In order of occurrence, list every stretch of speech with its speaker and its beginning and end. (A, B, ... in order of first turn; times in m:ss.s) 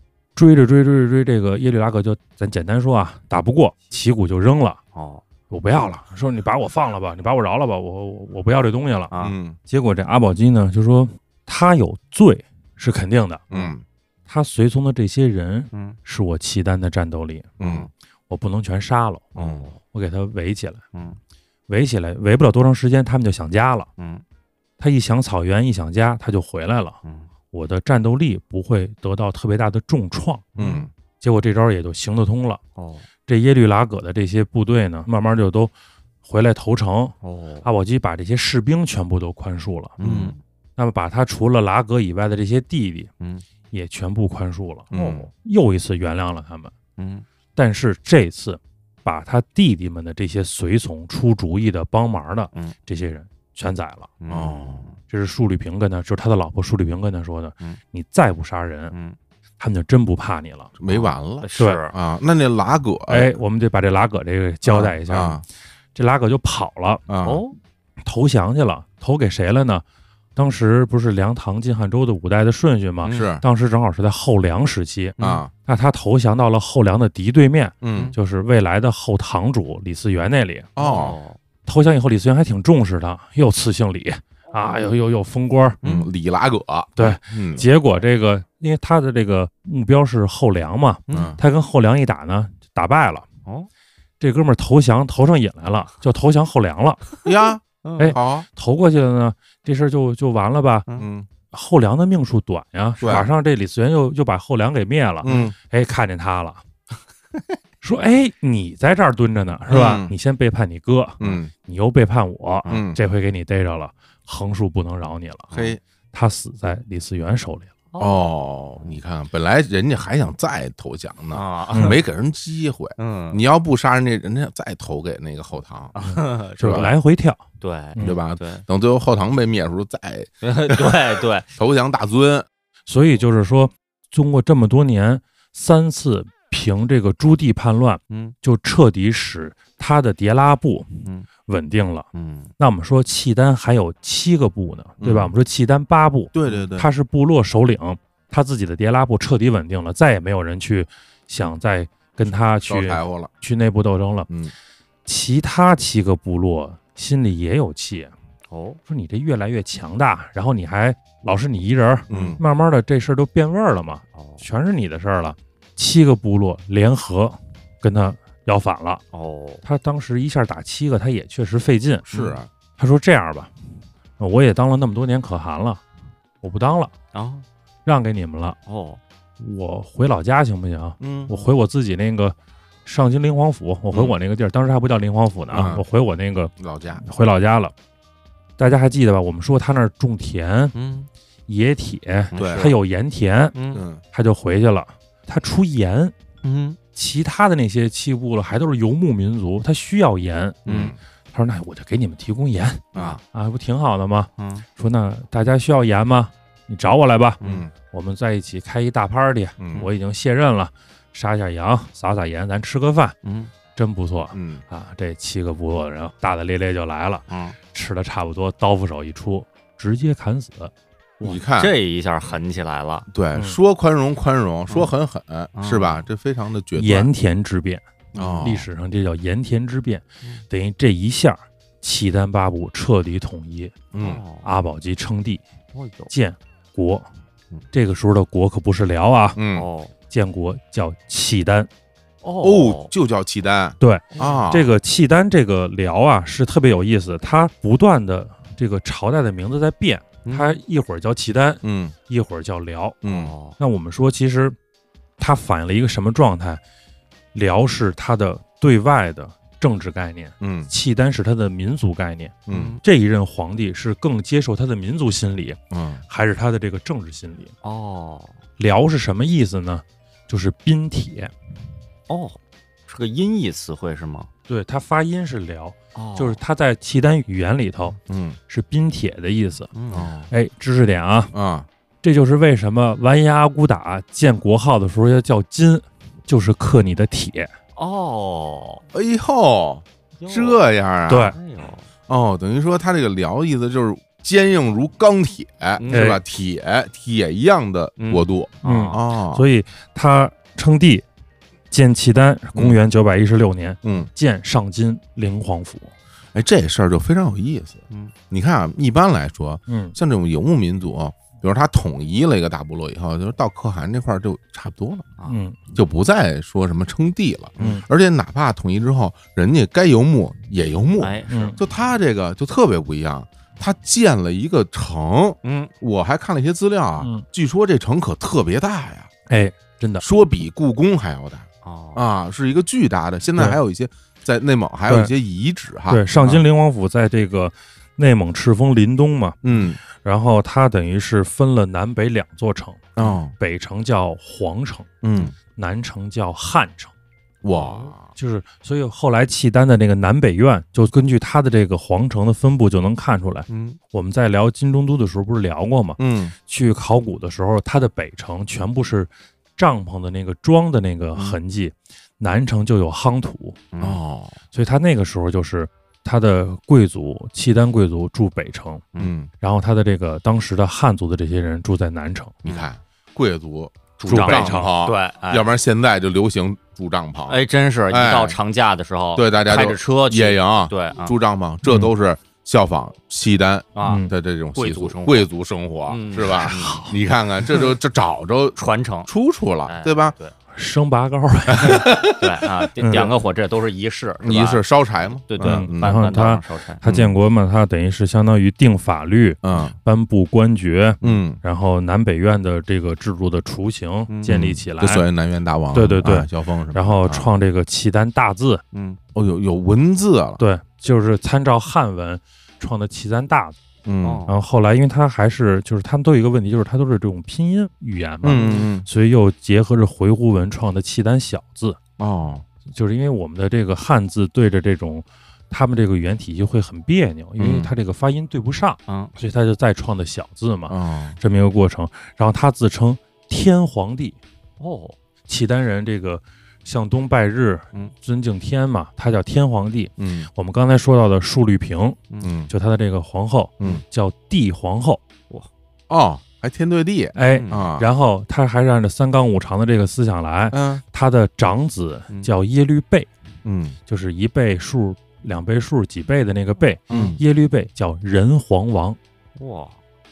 0:00.4-0:04.8 A
0:04.9-0:05.2 B
0:05.5-0:09.1 A
0:09.1-0:09.4 B
0:09.2-0:09.6 C
0:09.7-0:13.4 A
0:13.5-0:13.8 C
0:14.3-0:17.6 A
0:15.7-0:16.0 B
0:17.6-0:17.9 C
0:17.6-0:17.9 B
0:18.3-0:20.8 A
0:19.4-0:19.8 B
0:19.4-0:19.7 C
0:21.7-0:23.9 A
0:24.0-0:24.2 B
0:24.8-0:27.0 A
0:27.0-0:27.3 B
0:27.5-0:30.6 A
0:30.6-0:30.9 B
0:30.6-0:30.9 C
0:31.2-0:32.6 A
0:32.8-0:33.1 B
0:33.3-0:35.7 A
0:36.2-0:40.0 A
0:37.2-0:37.7 B
0:40.0-0:40.4 B
0:40.0-0:40.4 C
0:40.8-0:43.1 A
0:43.7-0:44.9 A
0:44.9-0:45.3 C
0:44.9-0:45.3 B
0:45.4-0:46.7 A
0:47.0-0:47.2 B
0:47.6-0:54.1 A
0:54.2-0:55.0 B
0:54.3-0:54.9 C
0:55.1-0:59.0 A
0:58.9-0:59.2 B
0:59.6-1:00.7 A
1:00.8-1:03.3 C
1:00.9-1:02.0 B
1:03.1-1:05.4 A
1:04.6-1:05.4 C
1:06.0-1:07.0 A
1:07.1-1:07.4 C
1:07.2-1:07.6 B
1:08.0-1:09.8 A
1:10.4-1:20.7 A
1:13.1-1:13.4 C
1:15.2-1:15.5 C
1:17.8-1:18.1 C
1:20.8-1:21.2 C
1:20.8-1:21.4 B
1:21.7-1:25.8 A
1:25.8-1:26.1 B
1:25.8-1:27.7 C
1:27.0-1:33.3 A
1:31.1-1:31.4 B
1:31.1-1:31.4 C
1:34.2-1:37.1 A
1:37.2-1:38.5 C
1:37.8-1:38.2 B
1:38.0-1:40.9 A
1:41.0-1:41.3 C
1:41.5-1:46.6 A
1:43.0-1:43.3 C
1:45.2-1:45.5 B
1:45.2-1:45.5 C
1:47.8-1:55.5 A
1:49.7-1:50.1 C
1:51.2-1:51.5 C
1:52.7-1:53.0 C
1:55.5-1:55.8 B
1:55.5-1:55.8 C
1:56.1-1:57.7 A
1:57.9-1:59.0 B
1:58.0-2:06.0 C
2:01.3-2:02.0 B
2:03.0-2:03.4 B
2:05.9-2:06.9 B
2:06.1-2:07.4 A
2:06.6-2:06.9 C
2:07.6-2:08.6 B
2:08.0-2:12.5 C
2:10.4-2:11.5 B
2:12.9-2:22.1 A
2:18.1-2:18.4 B
2:22.1-2:22.5 B
2:22.6-2:34.3 A
2:25.0-2:25.3 C
2:26.3-2:26.9 C
2:32.7-2:33.3 C
2:35.0-2:38.1 A
2:38.5-2:38.8 B
2:38.9-2:49.0 A
2:42.1-2:42.4 C
2:42.1-2:42.4 B
2:44.1-2:44.4 B
2:49.1-2:49.6 B
2:49.6-2:52.1 A
2:52.1-2:52.5 C
2:52.1-2:52.4 B
2:52.8-2:53.5 A
2:54.2-2:55.8 A
2:56.4-2:56.9 A
2:57.1-2:57.4 B
2:57.9-2:58.6 A
2:58.7-2:59.0 B
2:59.4-3:07.7 A
3:01.0-3:01.3 C
3:05.5-3:05.8 C
3:06.6-3:07.0 C
3:08.6-3:10.8 A
3:10.8-3:11.1 B
3:11.5-3:13.6 A
3:12.3-3:12.8 B
3:12.4-3:12.7 C
3:13.6-3:13.8 B
3:13.7-3:14.0 C
3:14.1-3:16.1 A
3:16.4-3:16.8 B
3:16.9-3:20.6 A
3:20.7-3:21.0 C
3:20.7-3:20.9 B
3:21.3-3:33.2 A
3:22.9-3:23.2 C
3:24.4-3:24.6 B
3:27.4-3:27.7 B
3:27.4-3:27.7 C
3:29.6-3:29.9 C
3:33.2-3:33.5 B
3:33.8-3:40.7 A
3:34.3-3:34.6 C
3:37.3-3:37.6 B
3:41.2-3:41.7 C
3:41.2-3:43.1 B
3:43.1-3:47.1 C
3:45.6-3:46.0 B
3:46.8-3:47.8 A
3:48.1-3:48.7 C
3:48.2-3:48.4 B
3:48.4-3:53.8 A
3:53.9-3:54.2 C
3:54.0-3:54.5 B
3:54.4-3:55.4 A
3:55.7-3:56.1 B
3:56.1-3:57.1 A
3:57.7-3:59.4 A
3:59.4-3:59.7 C
3:59.5-3:59.9 B
4:00.1-4:01.7 A
4:02.2-4:02.9 B
4:02.4-4:04.7 C
4:03.8-4:13.0 A
4:04.1-4:04.5 B
4:10.2-4:10.6 B
4:11.6-4:11.9 C
4:13.0-4:13.3 C
4:13.0-4:13.6 B
4:13.6-4:14.6 A
4:15.2-4:16.6 A
4:17.3-4:27.5 A
4:20.4-4:20.7 C
4:22.5-4:22.8 C
4:22.5-4:22.8 B
4:25.7-4:26.0 C
4:27.6-4:28.4 B
4:28.6-4:31.3 A
4:32.1-4:34.3 B
4:34.5-4:38.0 A
4:36.0-4:36.4 B
4:38.1-4:38.4 C
4:38.5-4:39.7 A
4:39.7-4:40.1 B
4:39.9-4:40.3 C
4:40.3-4:41.3 A
4:41.3-4:41.7 C
4:42.0-4:47.5 A
4:47.8-4:48.8 B
4:48.9-4:51.4 C
4:50.2-4:50.6 B
4:51.1-4:51.4 A
4:51.3-4:51.9 B
4:52.1-4:59.4 C
4:55.8-4:56.1 B
4:55.9-4:56.2 A
4:58.0-4:59.0 B
4:58.6-5:01.0 A
5:01.7-5:05.9 A
5:03.8-5:04.1 C
5:06.3-5:15.1 C
5:09.7-5:10.0 A
5:15.3-5:15.6 A
5:15.8-5:29.1 C
5:21.0-5:21.6 B
5:21.3-5:21.6 A
5:25.4-5:25.7 B
5:27.0-5:27.2 A
5:29.3-5:30.0 A
5:30.0-5:36.4 C
5:31.6-5:32.0 B
5:35.9-5:39.4 A
5:39.4-5:39.8 C
5:40.0-5:44.9 A
5:43.0-5:43.3 C
5:45.0-5:45.4 C
5:45.6-5:46.9 A
5:47.4-5:48.0 C
5:47.5-5:48.0 B
5:48.1-6:03.6 A
5:53.5-5:53.8 B
5:56.0-5:56.3 C
6:03.7-6:04.0 B
6:03.8-6:04.4 C
6:04.5-6:08.8 A
6:09.0-6:09.3 C
6:09.4-6:12.4 A
6:12.4-6:18.4 C
6:14.0-6:15.5 B
6:14.1-6:14.7 A
6:17.3-6:21.1 B
6:19.1-6:30.1 C
6:23.8-6:24.0 B
6:23.8-6:24.1 A
6:24.6-6:25.3 B
6:25.9-6:26.8 B
6:26.5-6:26.9 A
6:28.6-6:29.1 B
6:29.7-6:30.3 B
6:30.6-6:31.9 A
6:31.5-6:33.1 C
6:32.1-6:36.8 B
6:32.8-6:33.1 A
6:34.2-6:36.0 C
6:35.4-6:45.0 A
6:36.8-6:37.2 C
6:39.4-6:39.7 C
6:41.0-6:41.4 C
6:44.1-6:44.4 B
6:44.2-6:47.3 C
6:45.7-6:48.6 A
6:48.7-6:49.0 B
6:49.1-6:50.4 C
6:50.4-6:53.6 A
6:53.8-6:54.2 C
6:54.0-6:54.4 B
6:54.3-7:01.8 A
6:58.2-6:58.9 C
7:02.0-7:02.4 C
7:02.7-7:14.2 A
7:07.4-7:07.7 C
7:08.9-7:09.1 B
7:10.7-7:11.2 C
7:14.6-7:15.0 B
7:15.3-7:25.0 A
7:20.0-7:20.3 C
7:22.2-7:22.5 C
7:25.9-7:27.9 C
7:27.1-7:33.1 A
7:27.3-7:27.7 B
7:30.5-7:30.8 C
7:33.4-7:33.8 C
7:33.9-7:39.0 A
7:36.9-7:37.2 B
7:36.9-7:37.2 C
7:39.4-7:39.8 B